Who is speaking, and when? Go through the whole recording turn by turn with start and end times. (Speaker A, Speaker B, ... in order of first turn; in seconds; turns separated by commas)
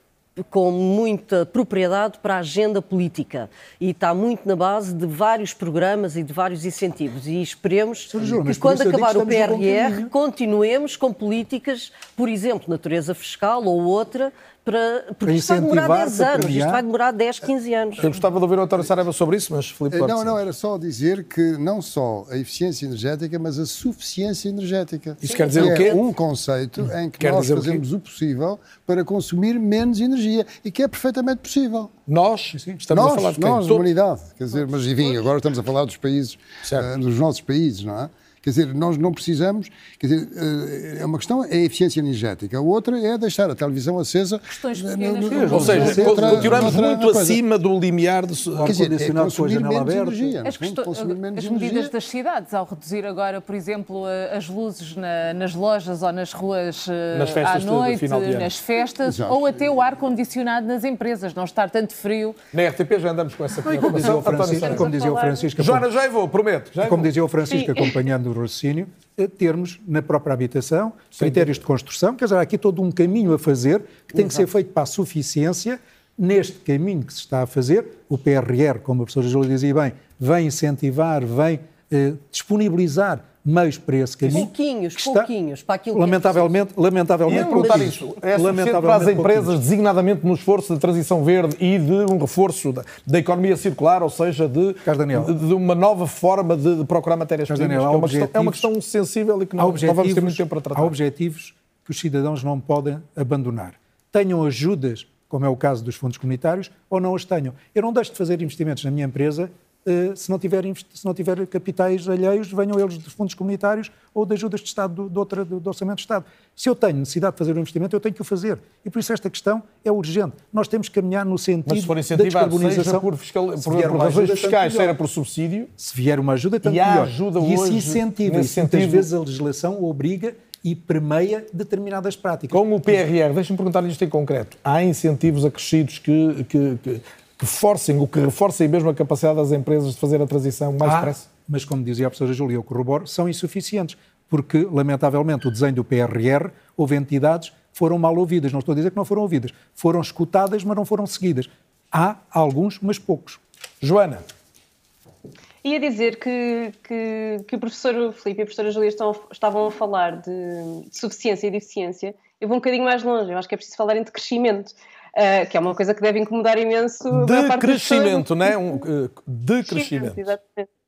Speaker A: 0.4-18.1, Speaker B: 8.1-10.1, Speaker B: 15.2-16.8, Speaker C: 18.0-20.4, Speaker D: 19.9-31.9, Speaker C: 25.2-26.0, Speaker C: 27.2-27.8, Speaker C: 32.1-33.9, Speaker B: 32.5-32.8, Speaker D: 32.9-47.4, Speaker E: 44.5-46.1, Speaker B: 45.2-46.8, Speaker C: 45.5-48.7, Speaker B: 48.5-50.3, Speaker D: 48.6-51.9, Speaker E: 50.4-62.4, Speaker C: 57.1-58.5, Speaker D: 59.0-59.7, Speaker C: 62.5-64.8, Speaker B: 63.6-65.9, Speaker E: 64.6-65.5, Speaker C: 65.6-67.1, Speaker B: 66.8-85.3, Speaker C: 71.1-71.6, Speaker A: 84.3-86.5, Speaker B: 85.9-89.5, Speaker C: 87.3-100.9, Speaker A: 87.3-88.0, Speaker B: 94.8-95.3, Speaker B: 97.5-98.7, Speaker B: 99.6-123.0, Speaker C: 121.7-125.7, Speaker B: 123.6-125.0, Speaker B: 125.8-133.0, Speaker C: 126.6-129.1, Speaker C: 132.5-141.2, Speaker B: 140.8-153.4, Speaker C: 153.8-154.2, Speaker F: 155.6-168.7, Speaker C: 167.1-170.3, Speaker F: 169.6-170.7